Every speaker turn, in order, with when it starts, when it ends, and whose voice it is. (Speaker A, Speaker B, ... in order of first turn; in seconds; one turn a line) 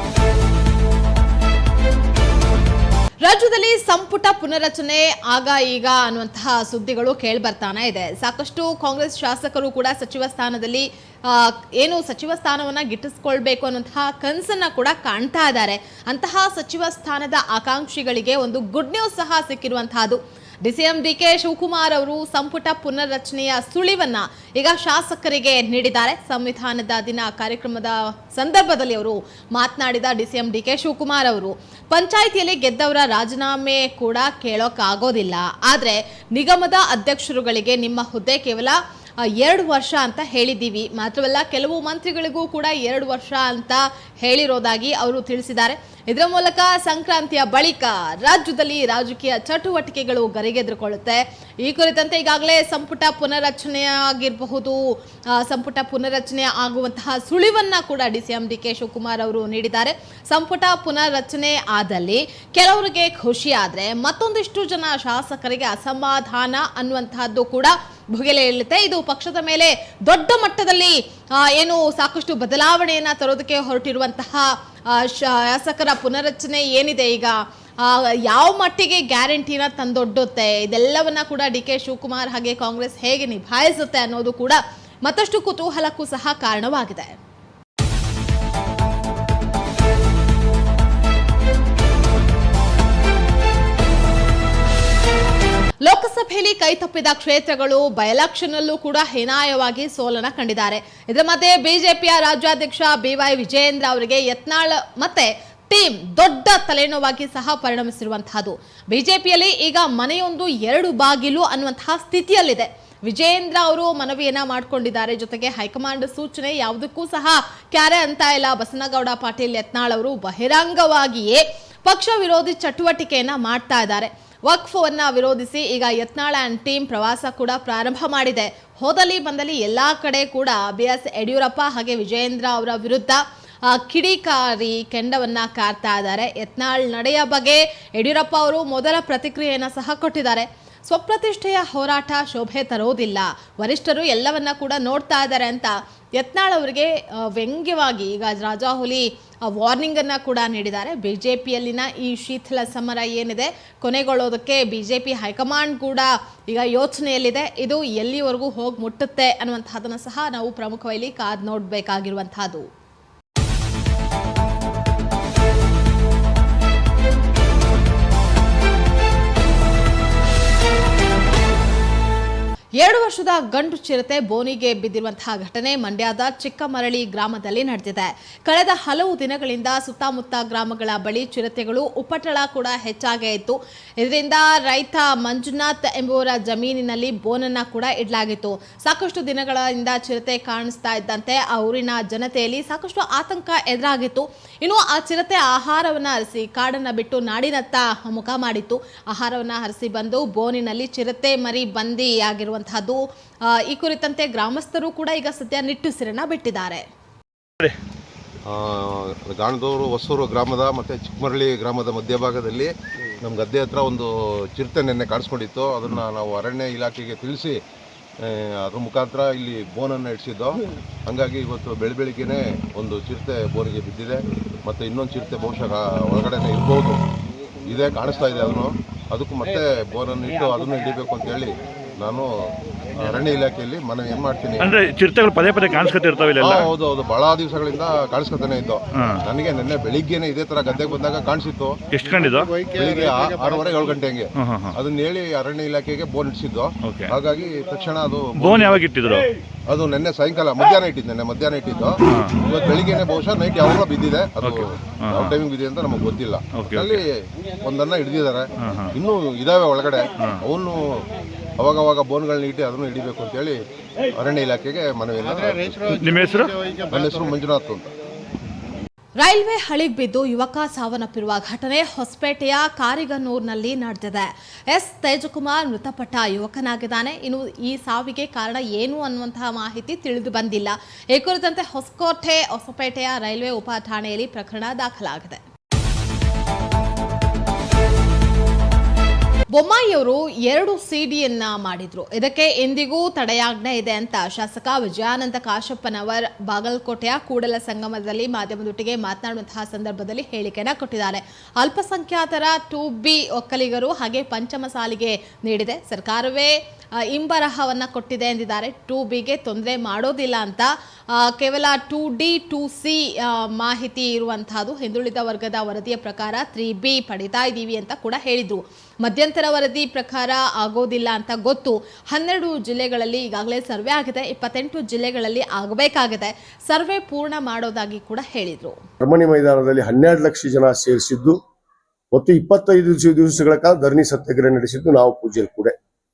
Speaker A: 3.2-38.8
Speaker A: 39.4-54.8
Speaker A: 55.4-87.2
Speaker A: 95.8-162.7
Speaker A: 172.8-206.8
Speaker B: 208.5-217.5
Speaker B: 218.2-227.0
Speaker B: 227.7-232.3
Speaker B: 233.0-234.8
Speaker C: 234.6-236.8
Speaker B: 236.4-241.9
Speaker C: 238.9-239.2
Speaker C: 241.9-242.5
Speaker B: 242.7-248.8
Speaker C: 244.4-244.8
Speaker C: 246.8-247.2
Speaker C: 248.3-249.3
Speaker B: 249.7-257.1
Speaker C: 252.1-252.4
Speaker C: 254.4-255.4
Speaker C: 256.5-257.0
Speaker B: 257.6-261.0
Speaker C: 258.6-258.9
Speaker C: 260.2-260.4
Speaker B: 261.6-263.6
Speaker B: 264.1-265.9
Speaker C: 266.0-266.6
Speaker B: 266.9-267.9
Speaker A: 269.2-285.4
Speaker A: 289.5-306.5
Speaker A: 307.1-328.8
Speaker D: 329.0-331.4
Speaker D: 332.1-335.7